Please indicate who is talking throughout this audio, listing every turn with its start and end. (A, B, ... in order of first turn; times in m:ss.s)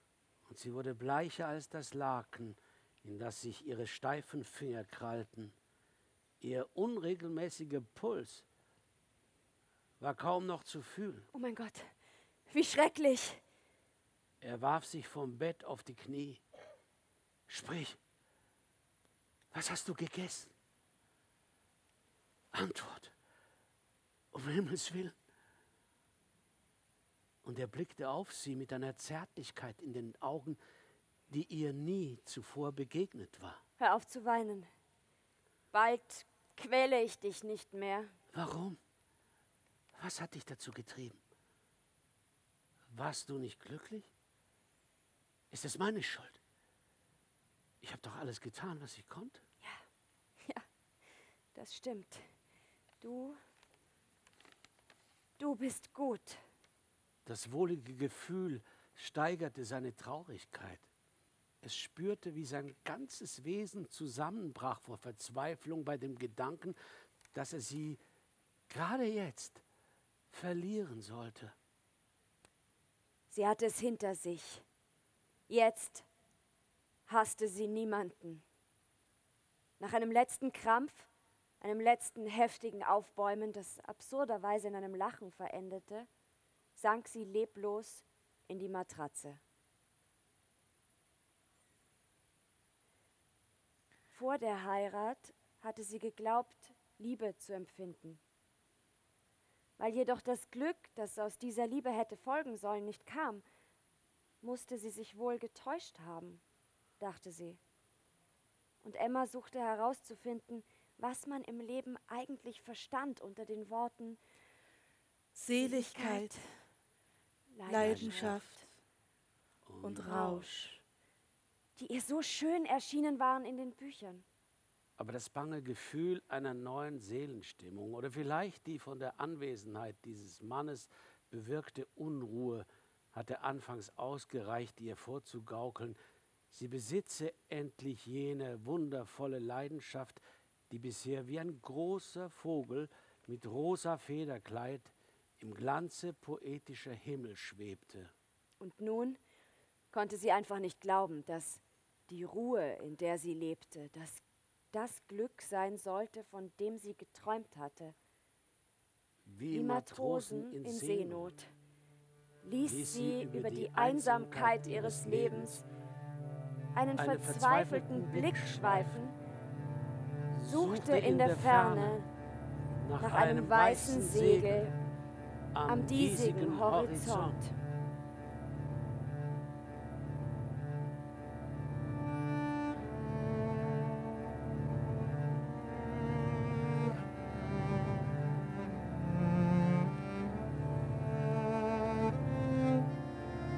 0:00.5-0:05.5 A
0:06.4-0:08.4 A
0:10.0-0:11.3 A
0:11.3-0:11.9 B
0:12.5-0:13.4 B
0:14.4-0:16.4 A
0:17.5-0:18.0 A
0:19.5-0:20.5 A
0:22.5-0:23.1 A
0:24.3-0:25.2 A
0:27.4-0:30.6 A
0:31.3-0:33.6 A
0:33.8-0:34.7 B
0:35.7-0:38.1 B
0:38.3-0:38.8 A
0:40.0-0:41.2 A
0:42.9-0:44.1 A
0:45.5-0:46.4 A
0:47.8-0:49.4 A
0:51.6-0:52.3 B
0:53.0-0:53.4 B
0:55.4-0:56.4 B
0:57.2-1:00.8 A
1:01.6-1:06.8 A
1:07.3-1:08.0 A
1:08.7-1:09.6 A
1:10.3-1:11.5 A
1:13.3-1:14.6 B
1:15.5-1:16.1 B
1:17.1-1:18.4 B
1:19.8-1:21.1 B
1:21.6-1:26.1 B
1:26.8-1:29.4 B
1:34.1-1:38.2 B
1:39.8-1:43.4 B
1:44.4-1:46.4 B
1:47.0-1:47.6 B
1:48.8-1:54.2 B
1:55.4-1:56.3 C
1:55.6-1:56.4 B
1:57.5-1:58.6 B
1:57.7-1:58.6 C
1:57.8-1:58.4 A
1:59.7-2:00.3 A
1:59.8-2:00.8 C
2:01.8-2:04.2 B
2:05.0-2:16.0 A
2:16.5-2:28.1 A
2:28.6-2:29.2 B
2:29.9-2:34.2 B
2:34.7-2:38.0 B
2:39.3-2:41.3 A
2:39.5-2:41.5 B
2:42.4-2:45.6 B
2:42.6-2:45.6 A
2:46.8-2:49.2 B
2:47.0-2:49.0 A
2:50.3-2:52.0 A
2:50.5-2:52.1 B
2:52.8-2:54.7 A
2:53.0-2:54.7 B
2:55.5-2:57.4 A
2:55.7-2:57.5 B